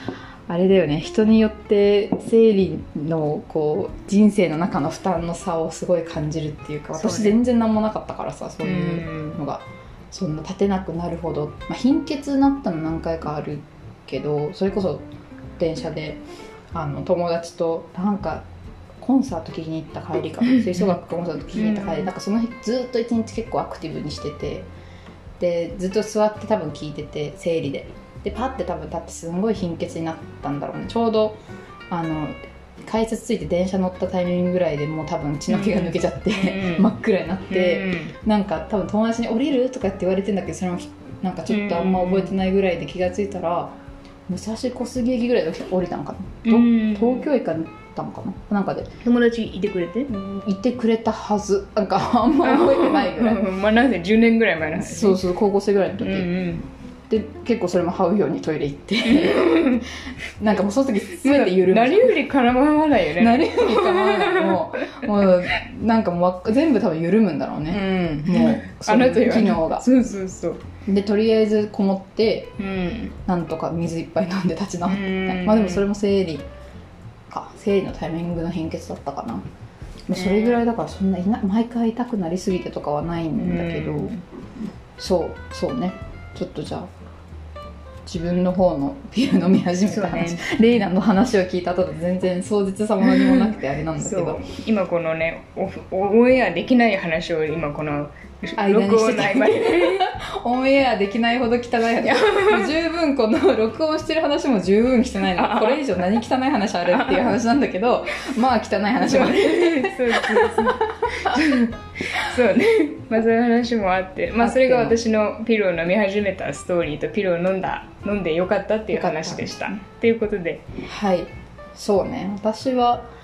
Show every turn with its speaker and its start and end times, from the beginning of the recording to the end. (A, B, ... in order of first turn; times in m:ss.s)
0:00.5-0:15.0 A
0:07.0-0:07.4 B
0:08.6-0:09.4 B
0:15.6-0:16.2 A
0:16.7-0:18.4 A
0:19.0-0:24.7 A
0:20.5-0:21.0 B
0:21.5-0:22.1 B
0:25.4-0:31.4 A
0:31.9-0:43.7 A
0:35.5-0:36.9 B
0:37.5-0:38.1 B
0:41.5-0:42.3 B
0:44.3-0:48.9 A
0:46.4-0:47.3 B
0:49.0-0:50.1 B
0:50.1-0:53.4 A
0:52.4-0:55.2 B
0:54.8-0:56.3 A
0:56.0-0:56.6 B
0:57.1-0:59.8 A
0:59.0-0:59.8 B
1:00.4-1:02.2 A
1:01.2-1:05.1 B
1:03.2-1:09.8 A
1:07.7-1:10.6 B
1:10.8-1:12.5 A
1:12.6-1:13.1 B
1:13.2-1:16.4 A
1:14.9-1:15.8 B
1:17.3-1:19.4 A
1:20.1-1:24.1 A
1:20.1-1:20.6 B
1:23.4-1:24.2 B
1:25.0-1:26.9 A
1:28.0-1:34.4 A
1:29.8-1:30.5 B
1:33.0-1:40.1 B
1:38.6-1:51.4 A
1:42.1-1:42.6 B
1:45.3-1:45.8 B
1:46.8-1:47.3 B
1:49.0-2:00.6 B
1:54.4-1:55.0 A
1:58.9-1:59.8 A
2:00.8-2:03.1 A